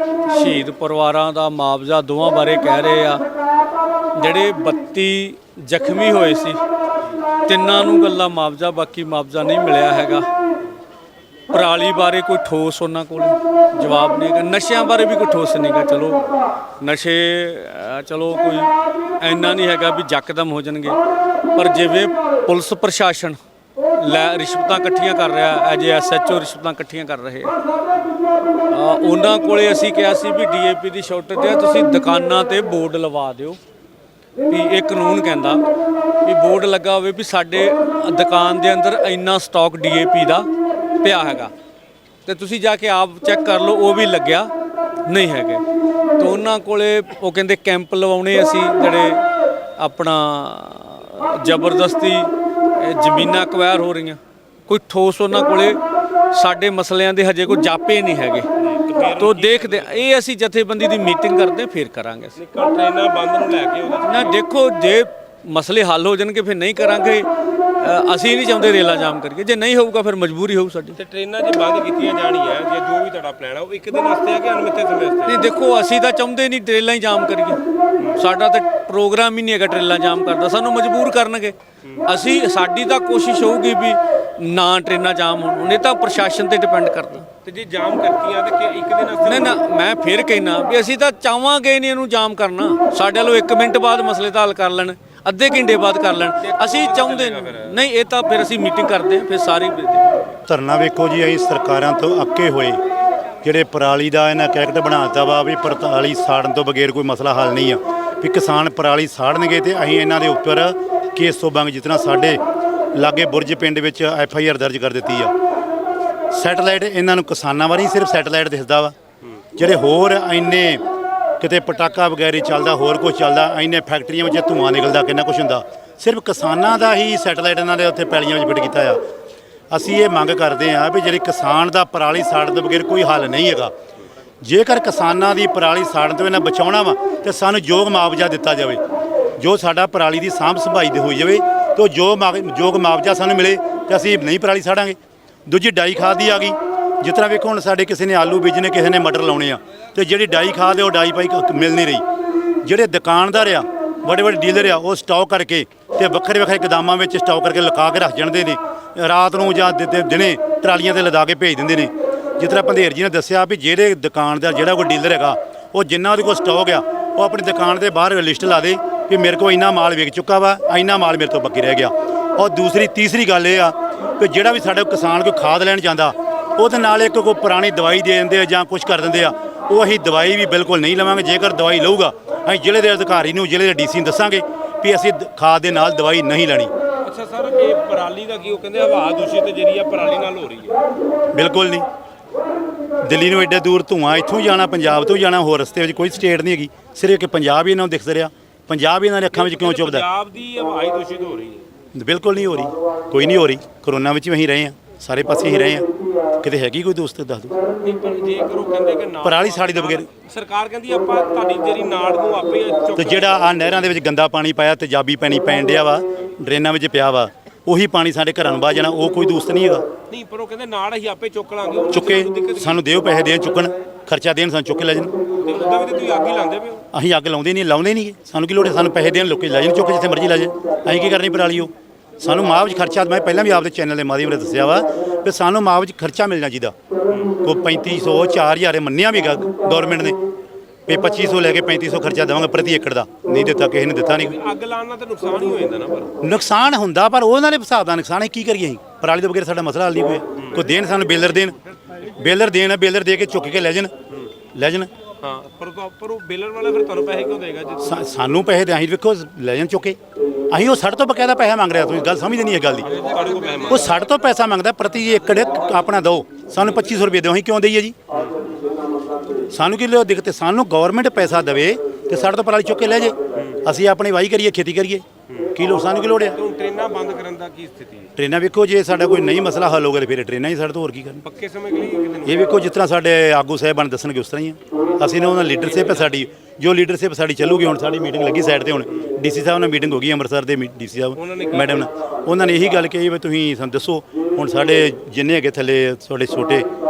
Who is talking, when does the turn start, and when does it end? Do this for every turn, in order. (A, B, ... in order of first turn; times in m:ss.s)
0:00.3-0:03.2 A
0:04.2-0:06.6 A
0:07.5-0:10.3 A
0:11.5-0:16.2 A
0:16.8-0:21.0 A
0:21.6-0:23.4 A
0:24.0-0:27.5 A
0:28.7-0:33.6 A
0:34.5-0:35.6 A
0:36.2-0:40.5 A
0:41.0-0:41.5 A
0:42.2-0:44.5 A
0:45.1-0:45.6 A
0:46.2-0:49.2 A
0:49.8-0:55.8 A
0:56.3-0:58.5 A
0:58.6-1:00.1 B
0:59.2-1:02.4 A
1:02.4-1:04.4 B
1:04.0-1:07.3 A
1:07.8-1:11.0 A
1:11.0-1:15.4 B
1:15.2-1:17.6 A
1:18.1-1:27.3 A
1:27.4-1:29.6 B
1:29.2-1:40.2 A
1:36.4-1:37.8 B
1:40.5-1:42.8 C
1:43.4-1:52.4 C
1:52.9-1:55.3 C
1:56.3-1:58.9 C
1:59.6-2:00.8 C
2:01.4-2:09.0 C
2:09.7-2:13.7 C
2:14.4-2:18.8 C
2:19.4-2:32.0 C
2:32.6-3:06.7 C
3:07.0-3:10.8 B
3:11.3-3:11.8 C
3:13.0-3:20.0 C
3:19.3-3:21.6 B
3:21.9-3:25.8 C
3:26.4-3:27.5 C
3:27.8-3:33.4 B
3:29.2-3:30.1 C
3:33.0-3:39.8 C
3:40.1-3:42.8 B
3:41.9-3:45.1 C
3:45.4-3:46.8 B
3:46.9-3:56.7 C
3:57.1-3:57.3 B
3:57.4-4:00.2 C
4:00.9-4:04.3 C
4:04.2-4:06.1 B
4:06.2-4:11.6 C
4:12.1-4:13.9 C
4:14.5-4:14.9 C
4:15.2-4:18.0 B
4:17.8-4:20.0 C
4:20.5-4:22.9 C
4:22.8-4:24.0 B
4:23.7-4:28.0 C
4:29.5-4:36.4 C
4:33.3-4:33.6 B
4:36.3-4:38.1 B
4:38.2-4:41.2 C
4:41.2-4:42.6 B
4:42.2-4:56.7 C
4:44.9-4:46.3 B
4:51.2-4:51.9 B